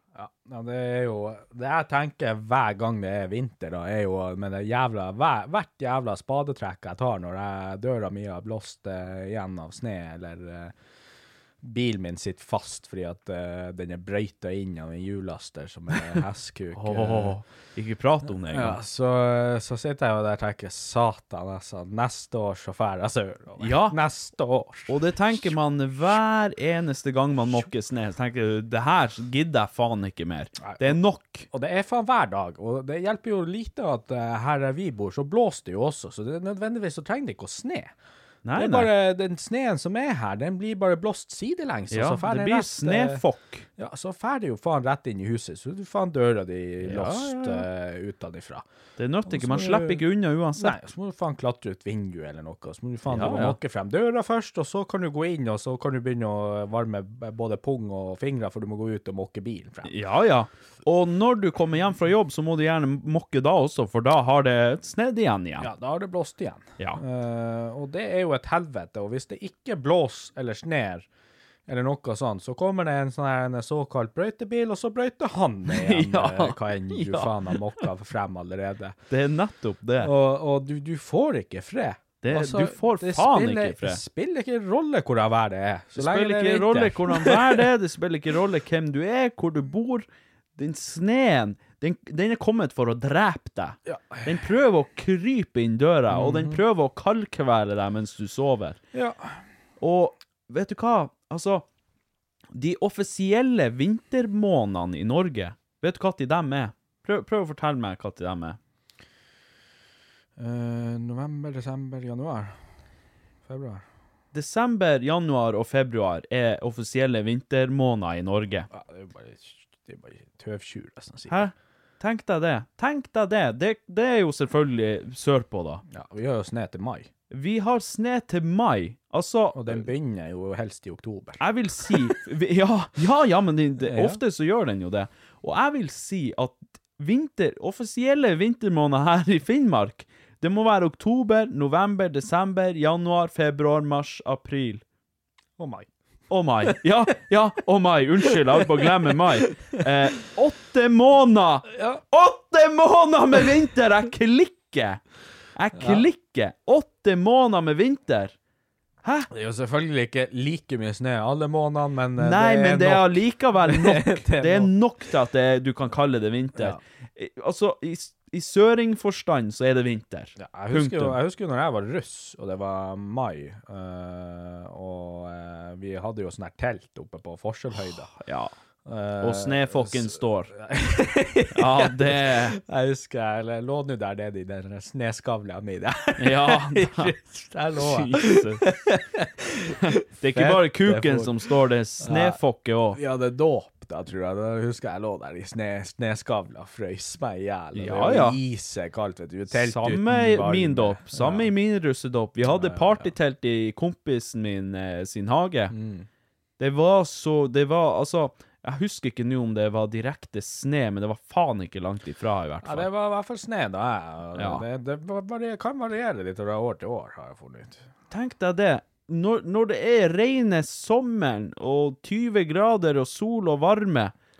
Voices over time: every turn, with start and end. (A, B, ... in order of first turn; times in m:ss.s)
0:00.2-0:10.7 A
0:11.6-0:17.4 A
0:16.7-0:18.8 B
0:18.4-0:25.0 A
0:23.6-0:24.0 B
0:24.9-0:31.5 B
0:30.6-0:31.0 A
0:31.5-0:37.9 A
0:38.4-0:38.9 B
0:38.6-0:43.2 A
0:41.9-0:43.7 B
0:43.8-0:48.6 A
0:46.8-0:47.7 B
0:49.0-0:50.8 B
0:49.3-0:50.0 A
0:50.6-0:59.9 A
0:53.1-0:53.6 B
0:59.8-1:05.7 B
1:05.6-1:11.1 A
1:11.7-1:19.0 A
1:15.7-1:17.8 B
1:19.1-1:20.1 B
1:20.0-1:27.6 A
1:22.2-1:24.0 B
1:26.0-1:38.8 B
1:33.9-1:34.4 A
1:36.1-1:36.6 A
1:38.9-1:39.4 A
1:39.8-1:41.7 B
1:42.5-1:48.6 B
1:50.4-1:52.6 A
1:53.5-1:53.8 A
1:54.3-1:58.7 B
1:58.7-2:01.4 A
2:01.3-2:05.8 B
2:05.9-2:07.1 A
2:07.3-2:09.9 B
2:09.5-2:11.4 A
2:11.4-2:24.8 B
2:13.8-2:14.2 A
2:25.6-2:25.9 A
2:26.3-2:35.0 B
2:28.6-2:28.9 A
2:31.7-2:32.0 A
2:35.6-2:38.4 B
2:35.8-2:36.1 A
2:39.0-2:39.3 B
2:39.3-2:44.7 A
2:42.2-2:51.2 B
2:46.6-2:46.8 A
2:50.4-2:58.1 A
2:57.8-2:58.5 B
2:58.9-3:12.4 A
2:59.2-3:00.5 B
3:01.5-3:02.6 B
3:06.2-3:07.1 B
3:07.8-3:08.6 B
3:10.2-3:13.0 B
3:12.9-3:21.5 A
3:17.7-3:18.4 B
3:19.5-3:25.7 B
3:22.5-3:23.1 A
3:25.7-3:26.1 A
3:26.6-3:32.9 B
3:32.6-3:37.9 A
3:34.4-3:34.6 B
3:38.1-3:44.1 B